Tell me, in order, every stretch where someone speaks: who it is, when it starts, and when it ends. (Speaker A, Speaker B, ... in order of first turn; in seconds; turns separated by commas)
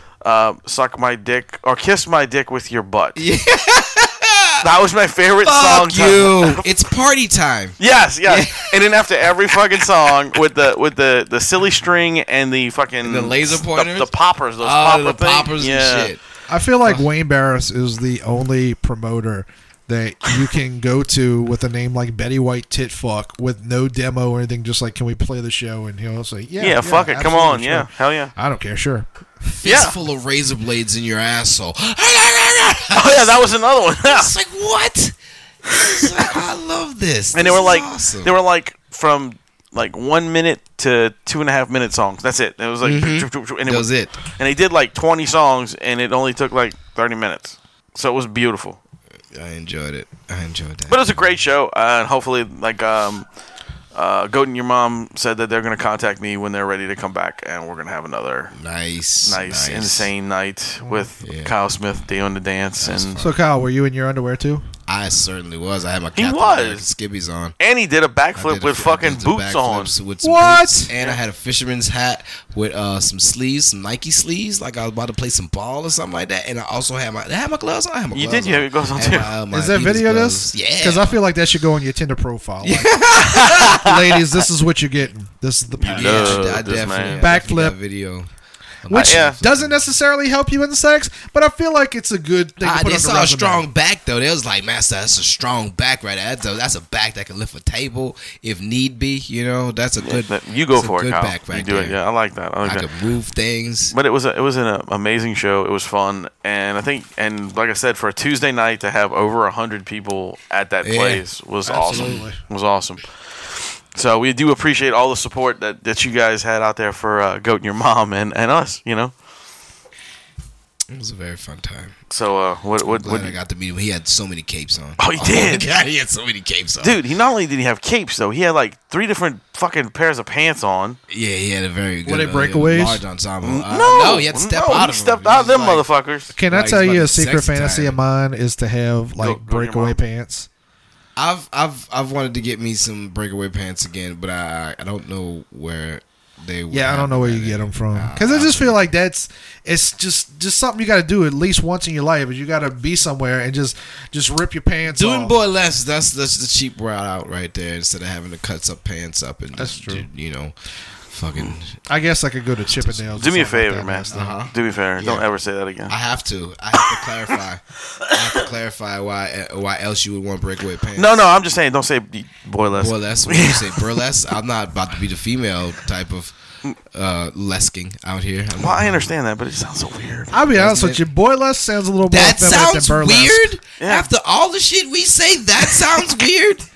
Speaker A: 0.2-3.2, Speaker B: 3.2-4.7, Speaker A: 4.6-6.7, Speaker B: 5.4-8.8, Speaker A: 7.8-16.1, Speaker B: 9.5-9.8, Speaker B: 13.0-16.2, Speaker C: 16.5-29.5, Speaker A: 26.6-28.3, Speaker B: 29.5-33.5, Speaker A: 29.6-29.9, Speaker A: 32.9-34.3, Speaker B: 34.0-35.2, Speaker B: 35.7-38.3, Speaker A: 37.3-48.8, Speaker B: 42.8-44.2, Speaker B: 49.3-51.1, Speaker A: 50.9-53.3, Speaker A: 53.9-58.5, Speaker B: 58.5-60.1, Speaker A: 59.2-63.2, Speaker C: 60.8-61.1, Speaker B: 61.2-61.5, Speaker B: 62.8-63.3, Speaker C: 63.2-64.7, Speaker B: 64.9-67.6, Speaker A: 66.2-66.9, Speaker A: 67.6-69.9, Speaker B: 68.4-81.2, Speaker C: 70.2-70.9, Speaker A: 78.1-79.3, Speaker C: 79.5-86.6, Speaker B: 82.6-83.8, Speaker A: 83.2-84.0, Speaker A: 85.8-87.3, Speaker B: 85.9-88.3, Speaker C: 87.2-87.8, Speaker B: 88.8-89.8, Speaker C: 88.9-93.6, Speaker A: 88.9-89.4, Speaker B: 92.6-102.0, Speaker A: 100.0-102.9, Speaker B: 102.6-103.9, Speaker A: 103.9-119.1, Speaker B: 110.8-111.2, Speaker C: 111.7-112.4, Speaker B: 111.9-112.3, Speaker B: 120.9-122.0, Speaker A: 122.1-123.4, Speaker B: 122.8-127.0, Speaker A: 125.0-125.7, Speaker A: 126.8-131.0, Speaker B: 131.1-138.0, Speaker C: 132.1-133.0, Speaker A: 133.4-136.3, Speaker C: 136.3-140.5, Speaker A: 139.2-140.0, Speaker B: 141.2-148.8, Speaker C: 146.7-155.3, Speaker B: 154.8-160.6, Speaker C: 159.6-160.1, Speaker B: 161.1-161.8, Speaker C: 161.9-164.4, Speaker A: 163.2-165.9, Speaker B: 164.1-165.3, Speaker B: 165.9-171.2, Speaker A: 166.8-167.0, Speaker A: 171.0-174.0, Speaker B: 172.8-176.3, Speaker B: 176.9-179.1, Speaker A: 178.6-180.4, Speaker C: 180.3-183.4, Speaker B: 180.5-181.0, Speaker B: 182.1-186.7, Speaker A: 183.8-184.1